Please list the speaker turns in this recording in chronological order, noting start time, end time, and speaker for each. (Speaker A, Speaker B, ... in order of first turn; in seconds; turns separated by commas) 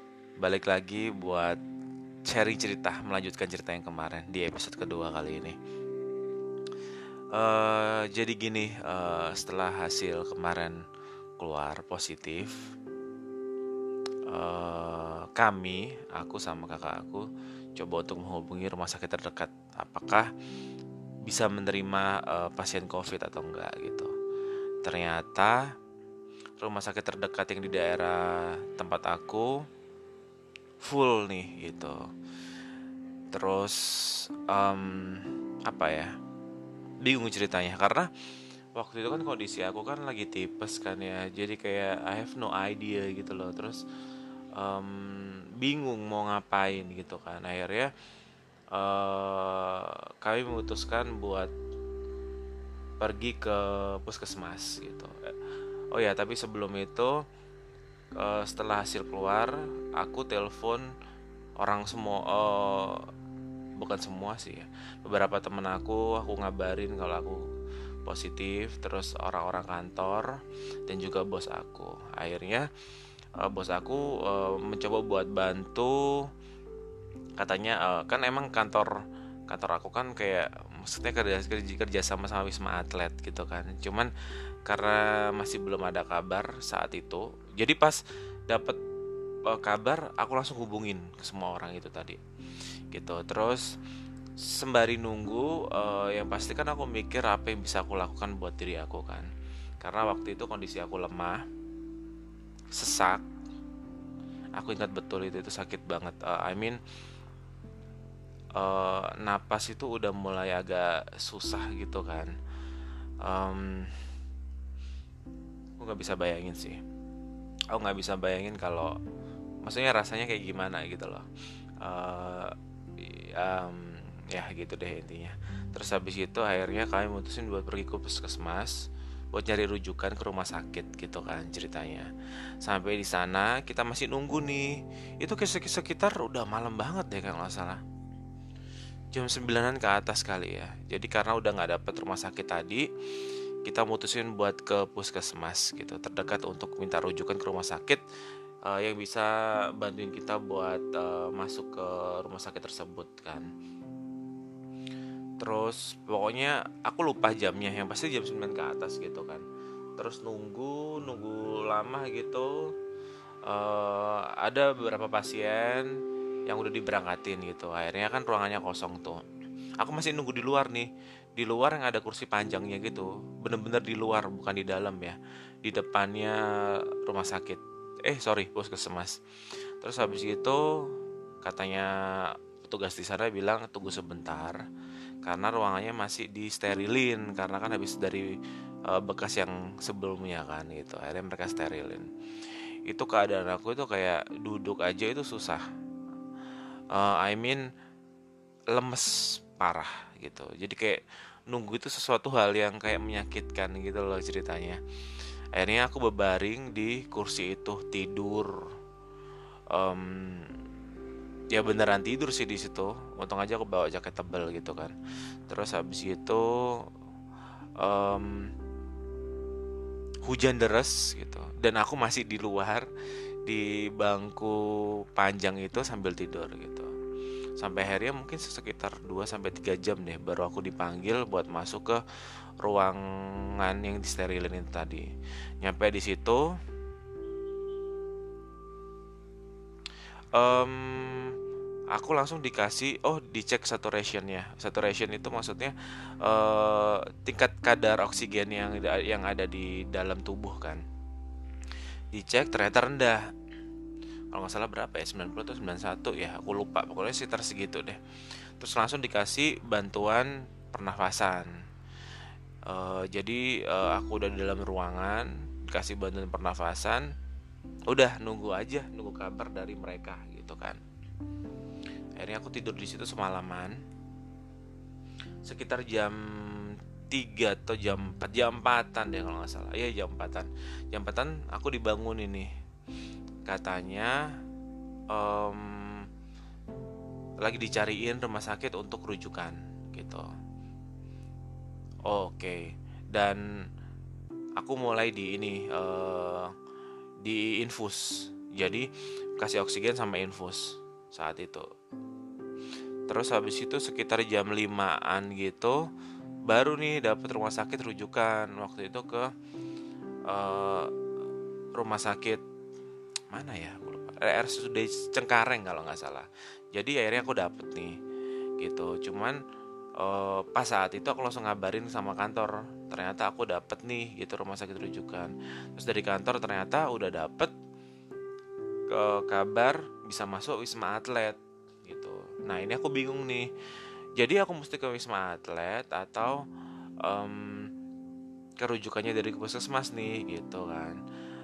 Speaker A: 0.4-1.6, Speaker A: 2.2-5.6, Speaker A: 7.3-10.8, Speaker A: 11.4-12.6, Speaker A: 14.3-20.3, Speaker A: 21.3-24.1, Speaker A: 24.8-25.7, Speaker A: 26.6-29.6, Speaker A: 30.8-32.1, Speaker A: 33.3-36.1, Speaker A: 37.0-38.1, Speaker A: 38.7-43.8, Speaker A: 44.5-47.9, Speaker A: 48.7-51.5, Speaker A: 53.0-57.2, Speaker A: 58.1-60.9, Speaker A: 61.6-63.1, Speaker A: 63.8-67.5, Speaker A: 68.0-72.7, Speaker A: 73.4-76.3, Speaker A: 77.4-84.1, Speaker A: 84.7-88.8, Speaker A: 89.5-92.2, Speaker A: 92.9-93.7, Speaker A: 94.4-99.3, Speaker A: 99.8-101.4, Speaker A: 102.7-103.3, Speaker A: 104.6-106.8, Speaker A: 108.5-112.3, Speaker A: 113.2-114.1, Speaker A: 115.8-116.8, Speaker A: 117.7-119.0, Speaker A: 119.6-121.3, Speaker A: 121.8-132.1, Speaker A: 132.6-137.8, Speaker A: 139.1-148.0, Speaker A: 148.7-153.5, Speaker A: 155.4-159.4, Speaker A: 160.0-162.7, Speaker A: 163.4-169.2, Speaker A: 169.8-179.2, Speaker A: 179.8-184.6, Speaker A: 185.2-195.7, Speaker A: 196.9-197.7, Speaker A: 198.7-204.8, Speaker A: 205.5-208.7, Speaker A: 209.7-210.6, Speaker A: 211.5-215.0, Speaker A: 215.5-216.9, Speaker A: 217.8-218.5, Speaker A: 220.2-222.9, Speaker A: 223.4-226.9, Speaker A: 227.6-232.0, Speaker A: 232.6-233.0, Speaker A: 233.6-235.1, Speaker A: 235.6-236.5, Speaker A: 240.3-241.4, Speaker A: 241.9-250.8, Speaker A: 252.1-253.3, Speaker A: 254.3-258.0, Speaker A: 258.6-261.5, Speaker A: 262.7-267.1, Speaker A: 267.9-270.8, Speaker A: 272.2-273.8, Speaker A: 275.4-282.5, Speaker A: 283.4-284.3, Speaker A: 285.1-286.1, Speaker A: 287.4-290.3, Speaker A: 292.1-293.4, Speaker A: 294.6-296.5, Speaker A: 297.2-301.7, Speaker A: 303.1-305.8, Speaker A: 306.5-309.3, Speaker A: 310.3-310.9, Speaker A: 311.8-312.4, Speaker A: 313.3-318.0, Speaker A: 318.6-319.4, Speaker A: 320.0-327.5, Speaker A: 328.9-333.5, Speaker A: 334.2-336.4, Speaker A: 337.0-337.7, Speaker A: 338.6-341.0